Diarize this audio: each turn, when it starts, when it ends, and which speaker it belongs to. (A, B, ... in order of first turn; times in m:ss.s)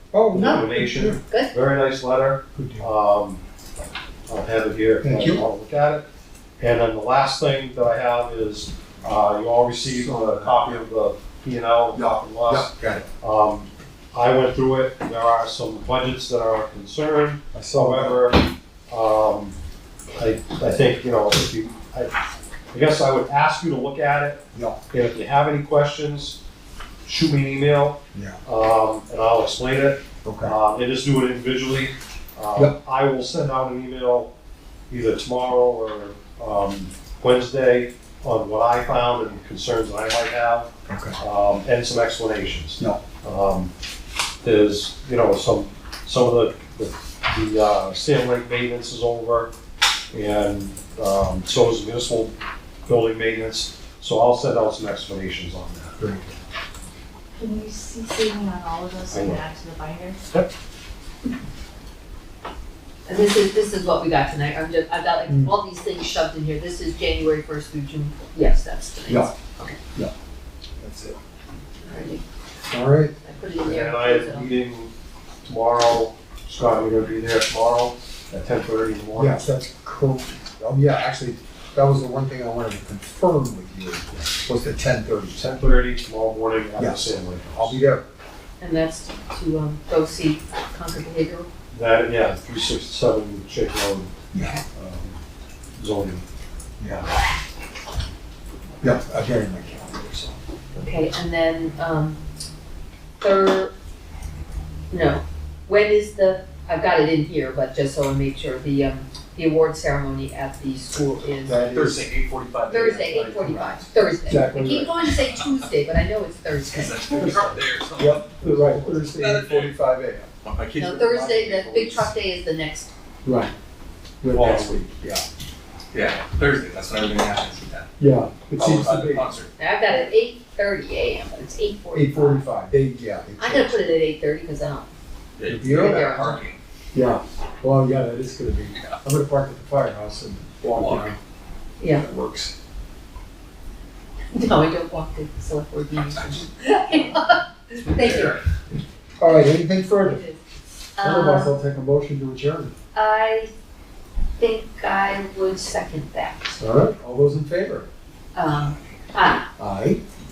0:00.1-0:01.2 A
0:00.3-0:03.4 B
0:01.3-0:01.5 C
0:02.5-0:02.9 A
0:04.3-0:06.0 B
0:05.0-0:05.5 A
0:06.6-0:19.6 B
0:09.8-0:10.8 A
0:11.9-0:13.0 A
0:17.5-0:18.2 A
0:20.2-0:22.1 B
0:22.7-0:26.4 B
0:27.0-0:34.3 B
0:28.1-0:28.4 A
0:30.2-0:30.5 A
0:34.9-0:43.7 B
0:40.9-0:41.2 A
0:44.4-0:49.5 B
0:50.1-0:52.3 B
0:52.9-0:56.0 B
0:56.0-0:56.3 A
0:57.4-1:00.2 D
0:59.1-0:59.4 B
1:03.0-1:09.7 C
1:05.3-1:05.5 A
1:09.1-1:09.3 A
1:10.8-1:11.2 A
1:11.8-1:12.2 C
1:12.7-1:13.1 A
1:13.2-1:14.5 C
1:13.6-1:14.9 B
1:15.4-1:19.5 B
1:19.2-1:25.4 A
1:25.4-1:27.8 B
1:26.8-1:28.1 A
1:28.6-1:31.5 C
1:31.7-1:34.1 B
1:34.3-1:34.6 A
1:34.7-1:35.2 B
1:35.8-1:36.2 B
1:36.8-1:37.0 A
1:38.8-1:40.4 A
1:40.7-1:42.2 C
1:43.2-1:43.7 C
1:44.9-1:51.6 C
1:51.4-1:52.1 A
1:51.5-1:53.8 E
1:52.7-1:57.3 C
1:53.4-1:54.9 A
1:55.2-1:55.5 E
1:56.7-1:59.8 E
1:57.1-2:00.3 A
1:58.4-1:58.9 B
2:00.4-2:02.1 E
2:00.8-2:02.9 C
2:03.2-2:03.5 A
2:04.2-2:05.2 A
2:04.3-2:04.8 B
2:04.3-2:04.7 E
2:05.9-2:07.9 E
2:08.0-2:09.3 A
2:08.6-2:09.5 E
2:09.6-2:12.4 C
2:11.9-2:13.8 A
2:13.4-2:14.9 C
2:15.4-2:16.6 E
2:15.4-2:16.2 A
2:15.6-2:16.4 C
2:16.9-2:21.2 A
2:20.7-2:21.1 E
2:21.8-2:22.0 C
2:21.9-2:22.5 A
2:24.3-2:28.4 C
2:26.1-2:26.4 E
2:27.9-2:28.4 E
2:29.2-2:30.2 A
2:30.0-2:30.4 C
2:31.0-2:31.5 C
2:31.0-2:32.7 A
2:32.9-2:33.5 C
2:34.4-2:36.6 C
2:36.6-2:37.9 A
2:38.3-2:39.5 C
2:39.6-2:40.0 A